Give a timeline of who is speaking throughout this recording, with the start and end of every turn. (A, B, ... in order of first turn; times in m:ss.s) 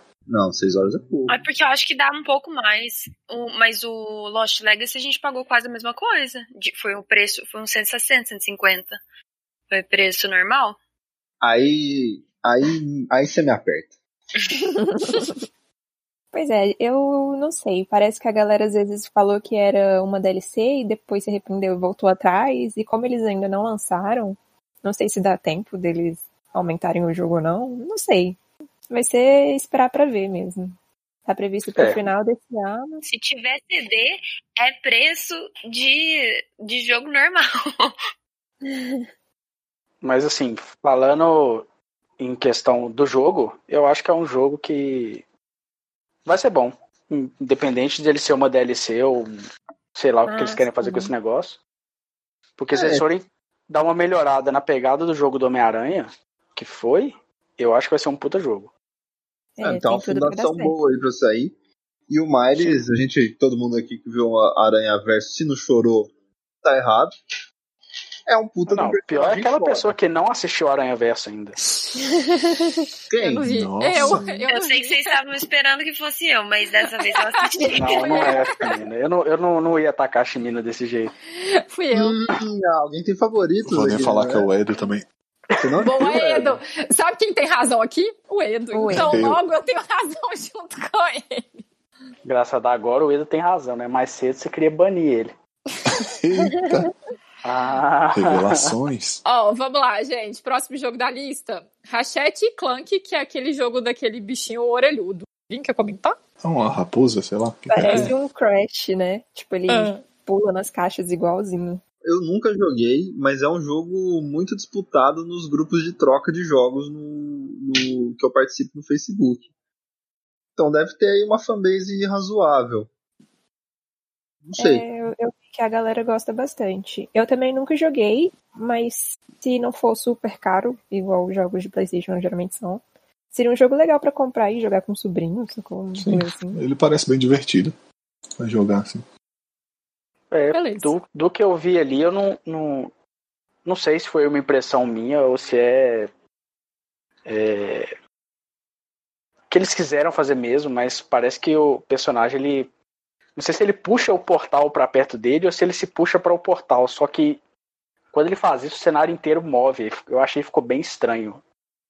0:00.3-0:01.4 A
0:01.3-0:09.0 B
0:09.7-0:10.8 B
0:11.4-0:13.9 A
0:14.7-0:15.3 C
0:16.3-0:28.4 C
0:28.9-0:33.0 C
0:31.8-0:32.1 D
0:33.0-0:37.9 B
0:38.7-0:39.0 C
0:40.0-0:41.6 D
0:42.2-0:45.2 D
0:46.2-0:49.4 D
0:49.9-0:51.6 D
0:50.3-0:51.1 C
0:52.6-0:58.7 D
0:52.7-0:53.0 A
0:59.6-1:00.8 C
0:59.6-1:01.5 A
1:02.1-1:07.1 A
1:02.6-1:02.8 D
1:08.3-1:09.9 A
1:08.7-1:11.6 D
1:12.1-1:12.8 C
1:13.1-1:13.5 A
1:13.2-1:15.2 E
1:13.4-1:14.4 F
1:14.0-1:14.4 C
1:14.5-1:18.4 B
1:17.0-1:18.8 E
1:17.7-1:21.1 D
1:21.3-1:22.2 E
1:21.9-1:24.5 A
1:23.6-1:25.0 F
1:25.6-1:26.6 A
1:25.8-1:31.6 E
1:28.7-1:29.1 C
1:29.0-1:29.4 F
1:32.2-1:35.3 D
1:35.8-1:36.9 F
1:37.4-1:38.7 D
1:38.1-1:39.2 F
1:39.2-1:46.2 E
1:46.4-1:48.1 F
1:47.7-1:51.8 C
1:47.8-1:48.1 E
1:49.7-1:50.0 E
1:52.0-1:59.5 A
2:00.6-2:02.9 A
2:04.4-2:04.8 A
2:04.6-2:16.6 C
2:16.0-2:17.7 F
2:18.4-2:19.0 F
2:20.3-2:22.9 D
2:20.5-2:20.9 E
2:23.6-2:26.1 D
2:27.2-2:27.9 D
2:29.5-2:32.7 D
2:33.4-2:37.4 D
2:38.1-2:41.4 D